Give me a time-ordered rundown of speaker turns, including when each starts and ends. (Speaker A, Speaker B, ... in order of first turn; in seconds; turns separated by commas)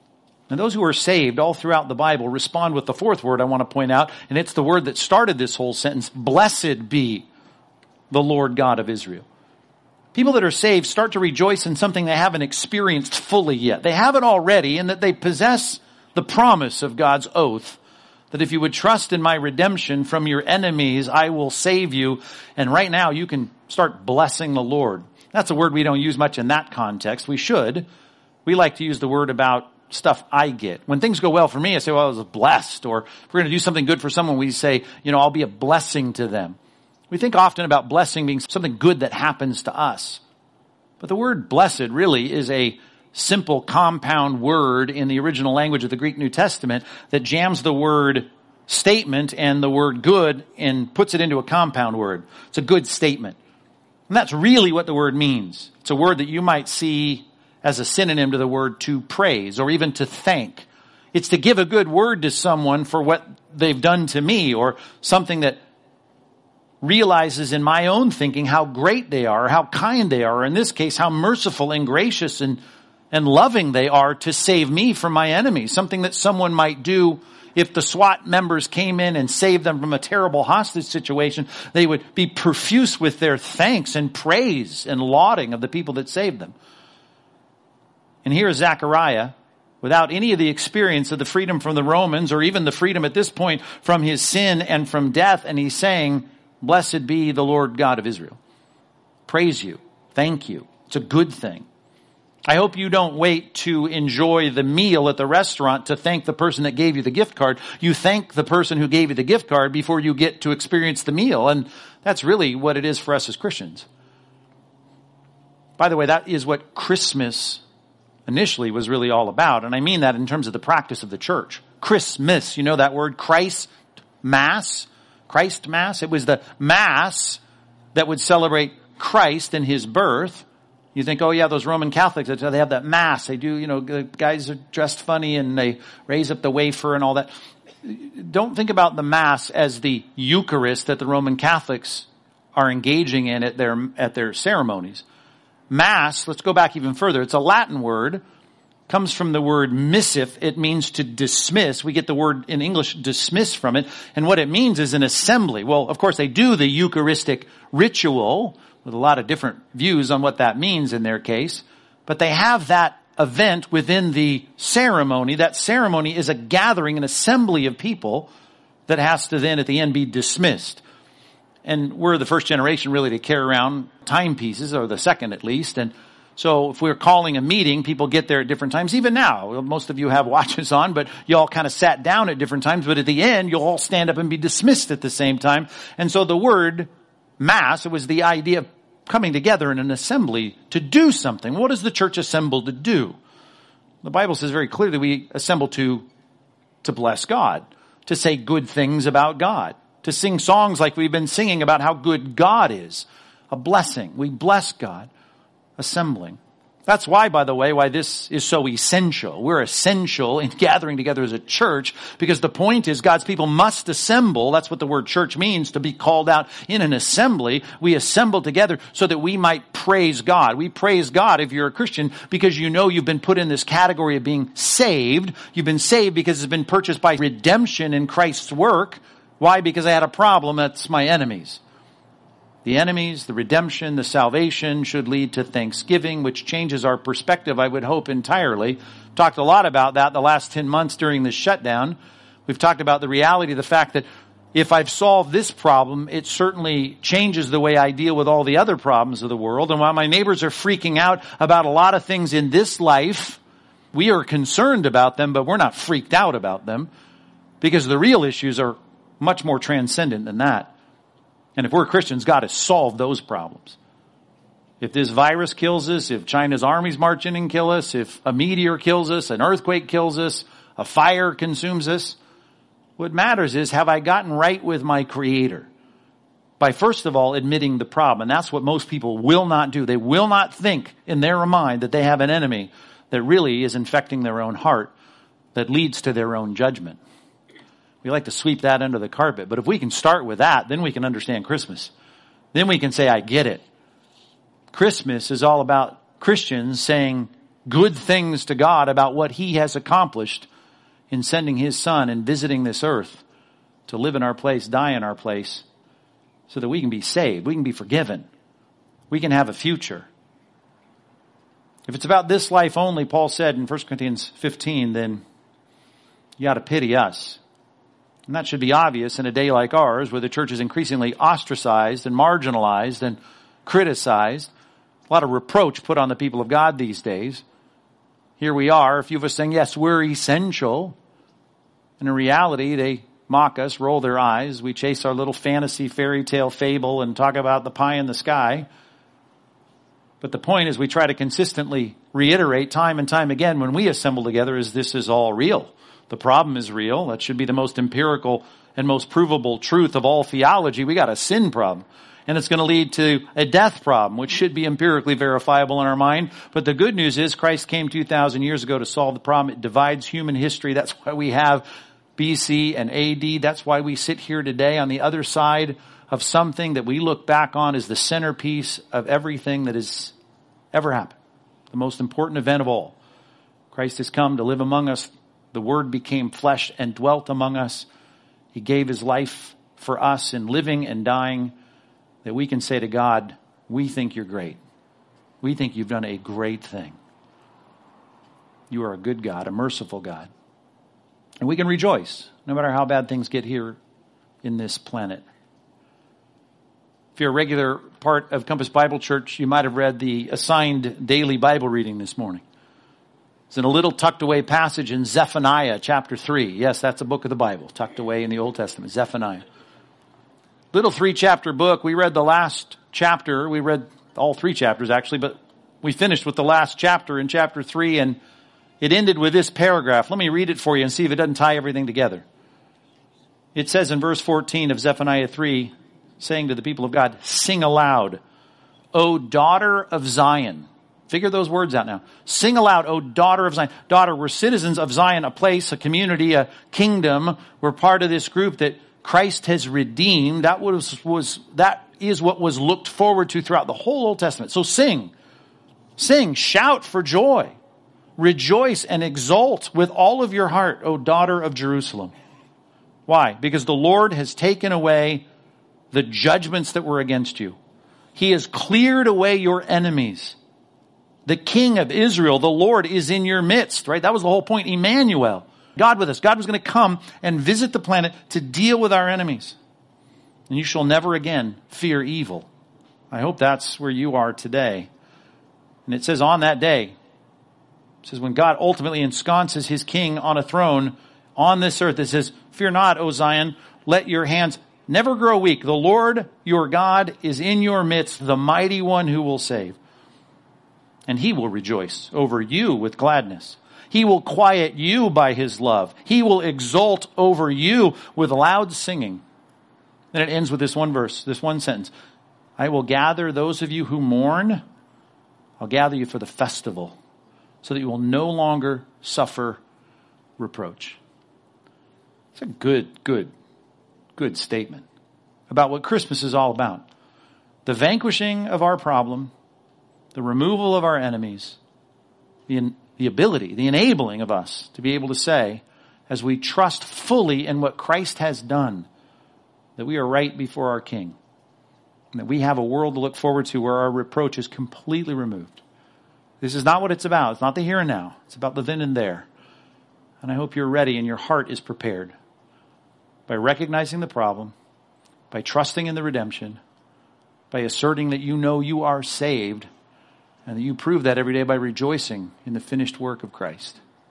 Speaker A: 0.5-7.3, Speaker A: 8.1-9.2, Speaker A: 10.1-17.8, Speaker A: 18.3-27.9, Speaker A: 28.5-36.6, Speaker A: 37.1-40.2, Speaker A: 41.0-53.4, Speaker A: 54.1-65.6, Speaker A: 66.8-86.5, Speaker A: 88.2-98.4, Speaker A: 99.3-101.7, Speaker A: 102.5-113.9, Speaker A: 115.8-117.6, Speaker A: 118.3-127.4, Speaker A: 128.0-137.3, Speaker A: 137.8-145.0, Speaker A: 145.7-148.2, Speaker A: 148.9-168.3, Speaker A: 168.9-170.8, Speaker A: 171.7-193.2, Speaker A: 194.0-196.1, Speaker A: 196.8-205.1, Speaker A: 205.8-231.6, Speaker A: 232.6-253.4, Speaker A: 253.9-256.9, Speaker A: 257.6-260.7, Speaker A: 261.6-263.8, Speaker A: 264.8-272.2, Speaker A: 273.0-275.7, Speaker A: 276.6-284.9, Speaker A: 285.6-287.0, Speaker A: 288.0-291.9, Speaker A: 292.5-293.6, Speaker A: 294.7-300.5, Speaker A: 301.1-303.2, Speaker A: 303.9-305.6, Speaker A: 306.5-308.3, Speaker A: 309.1-310.1, Speaker A: 311.9-315.2, Speaker A: 316.4-317.4, Speaker A: 318.3-324.5, Speaker A: 325.1-327.4, Speaker A: 328.4-331.0, Speaker A: 332.0-338.7, Speaker A: 340.2-370.1, Speaker A: 370.7-371.2, Speaker A: 371.7-373.0, Speaker A: 373.7-377.9, Speaker A: 378.5-381.5, Speaker A: 382.2-384.6, Speaker A: 385.4-387.0, Speaker A: 388.7-390.3, Speaker A: 391.4-393.8, Speaker A: 394.4-395.2, Speaker A: 397.2-402.4, Speaker A: 403.5-409.4, Speaker A: 410.7-418.2, Speaker A: 418.8-422.2, Speaker A: 423.6-428.2, Speaker A: 428.9-445.1, Speaker A: 446.0-447.6, Speaker A: 448.2-452.1, Speaker A: 453.1-455.2, Speaker A: 455.9-457.6, Speaker A: 458.1-460.4, Speaker A: 461.3-469.6, Speaker A: 470.5-472.5, Speaker A: 473.1-474.9, Speaker A: 475.9-476.9, Speaker A: 478.0-489.8, Speaker A: 491.1-499.2, Speaker A: 500.1-501.9, Speaker A: 502.6-504.6, Speaker A: 505.6-507.0, Speaker A: 507.6-509.6, Speaker A: 510.4-511.0, Speaker A: 512.4-513.3, Speaker A: 514.2-514.9, Speaker A: 515.5-516.8, Speaker A: 517.7-519.3, Speaker A: 520.1-521.6, Speaker A: 522.5-528.9, Speaker A: 529.8-531.2, Speaker A: 532.1-535.6, Speaker A: 536.4-539.3, Speaker A: 540.2-542.1, Speaker A: 543.3-544.5, Speaker A: 545.3-546.6, Speaker A: 547.5-549.7, Speaker A: 550.5-553.8